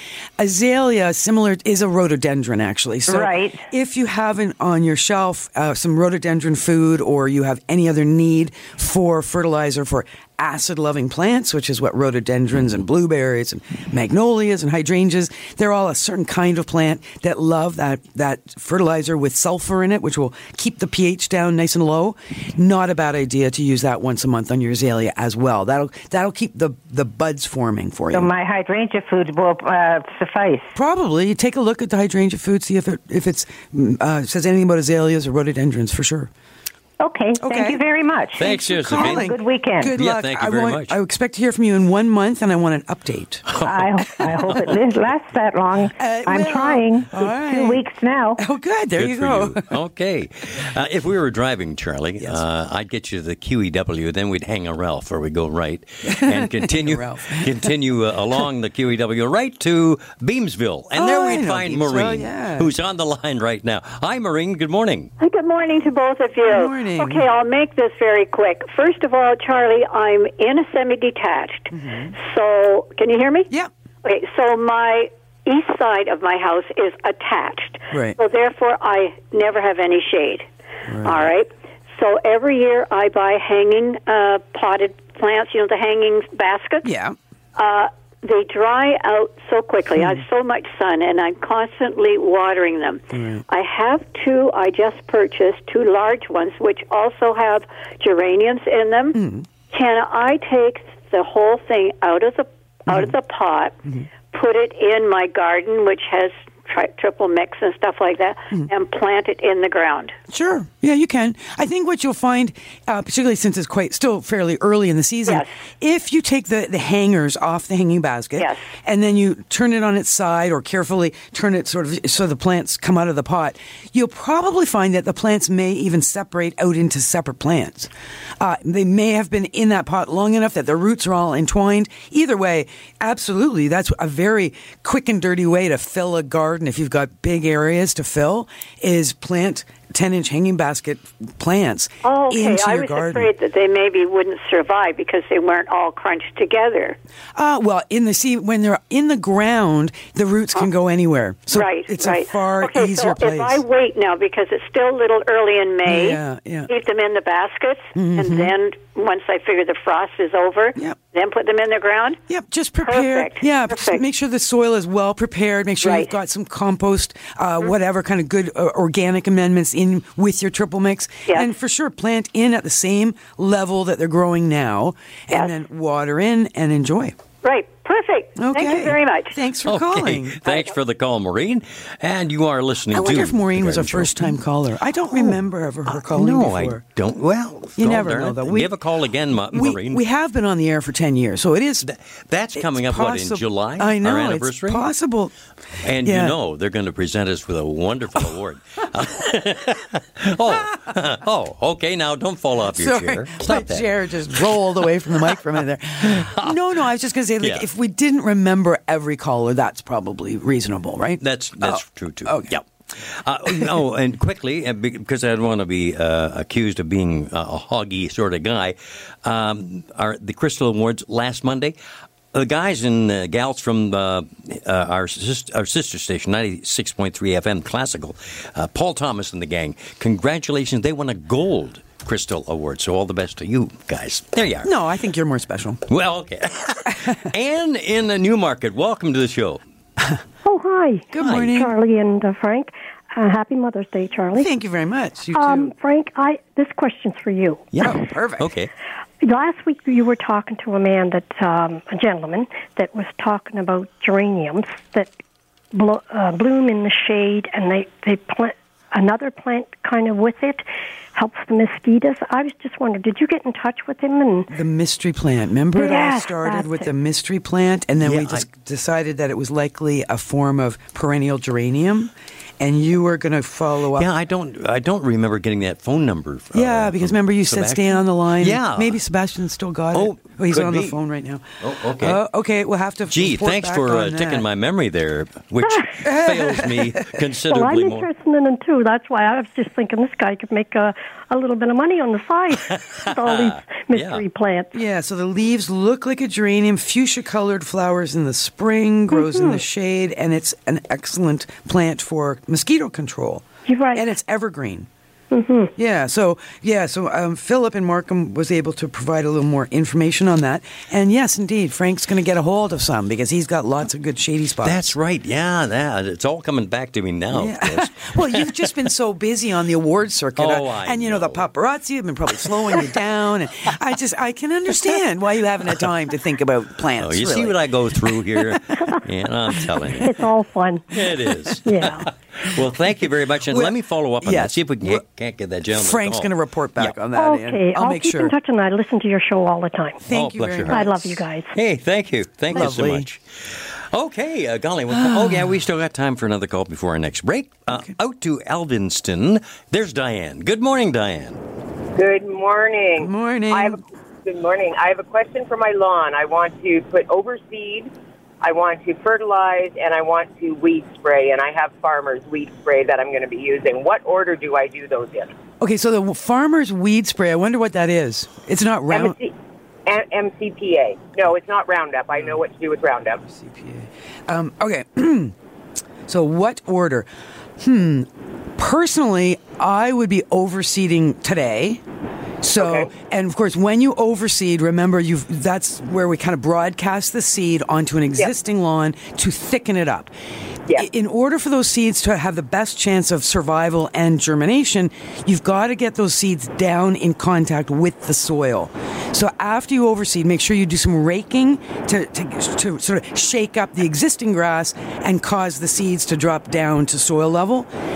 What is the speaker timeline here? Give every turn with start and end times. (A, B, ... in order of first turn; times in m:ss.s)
0:00.4-0:28.3 A
0:03.1-0:03.6 B
0:28.1-0:30.7 B
0:30.8-0:36.3 A
0:37.0-0:39.9 B
0:37.4-0:37.8 A
0:38.4-0:39.3 C
0:38.4-0:43.5 A
0:40.0-0:41.0 C
0:43.5-0:44.7 C
0:43.6-0:48.4 B
0:46.0-0:47.8 A
0:48.4-0:49.6 A
0:49.0-1:05.1 C
0:56.0-0:57.7 A
1:00.9-1:02.7 A
1:05.2-1:13.5 D
1:06.4-1:07.3 A
1:11.7-1:12.1 A
1:14.0-1:20.5 D
1:17.9-1:18.2 A
1:20.9-1:21.3 A
1:21.0-1:26.9 D
1:26.8-1:27.2 A
1:27.6-1:43.8 D
1:30.0-1:30.2 A
1:33.1-1:33.4 A
1:39.1-1:39.5 A
1:42.9-1:43.2 A
1:44.3-1:50.2 D
1:50.3-2:23.3 A
1:55.3-1:55.5 D
1:58.4-1:58.7 D
2:22.0-2:27.0 D
2:27.4-2:33.6 A
2:31.5-2:42.2 D
2:35.9-2:36.7 A
2:38.0-2:38.5 A
2:42.3-2:57.2 A
2:42.8-2:44.0 D
2:45.8-2:46.1 D
2:57.4-2:59.4 D
2:58.4-3:00.4 A
2:59.6-3:04.4 C
3:00.5-3:00.7 D
3:02.9-3:06.8 A
3:05.9-3:10.0 C
3:07.8-3:08.8 A
3:09.5-3:11.9 A
3:11.9-3:14.9 C
3:12.6-3:15.3 A
3:15.8-3:24.6 C
3:16.0-3:16.4 A
3:22.7-3:32.6 A
3:26.0-3:26.6 C
3:27.4-3:27.7 C
3:31.2-3:41.8 C
3:42.3-3:54.7 C
3:54.6-3:55.8 A
3:55.9-3:59.6 C
4:00.4-4:04.5 E
4:01.1-4:01.7 A
4:01.2-4:01.5 C
4:04.3-4:05.7 A
4:05.4-4:07.7 E
4:07.7-4:08.7 C
4:07.8-4:08.5 A
4:09.2-4:15.1 E
4:15.7-4:24.5 E
4:24.5-4:34.1 A
4:25.8-4:26.9 E
4:28.0-4:28.4 C
4:34.0-4:39.0 C
4:36.5-4:44.5 A
4:39.9-4:41.0 C
4:41.6-4:42.2 C
4:43.1-4:48.1 C
4:46.0-4:46.9 A
4:47.5-4:54.7 E
4:53.0-4:54.2 C
4:54.7-5:04.9 A
4:59.1-4:59.6 E
5:03.7-5:04.1 E
5:05.3-5:05.7 E
5:05.8-5:14.8 A
5:14.6-5:18.7 C
5:17.3-5:27.6 A
5:20.4-5:21.5 C
5:27.0-5:30.2 C
5:29.8-5:30.0 A
5:30.0-5:32.1 E
5:30.9-5:36.9 C
5:33.5-5:35.0 A
5:35.7-5:38.3 A
5:37.2-5:40.0 E
5:40.0-5:41.2 A
5:40.1-5:43.2 C
5:40.7-5:41.5 E
5:42.5-5:43.1 A
5:43.9-5:51.4 C
5:44.9-5:45.6 A
5:52.0-6:05.3 F
5:53.0-5:53.8 A
6:05.6-6:09.2 A
6:08.9-6:09.3 F
6:09.9-6:13.2 F
6:13.2-6:15.4 A
6:16.1-6:17.1 A
6:17.6-6:21.8 A
6:22.4-6:30.1 A
6:22.6-6:22.9 F
6:30.7-6:47.7 A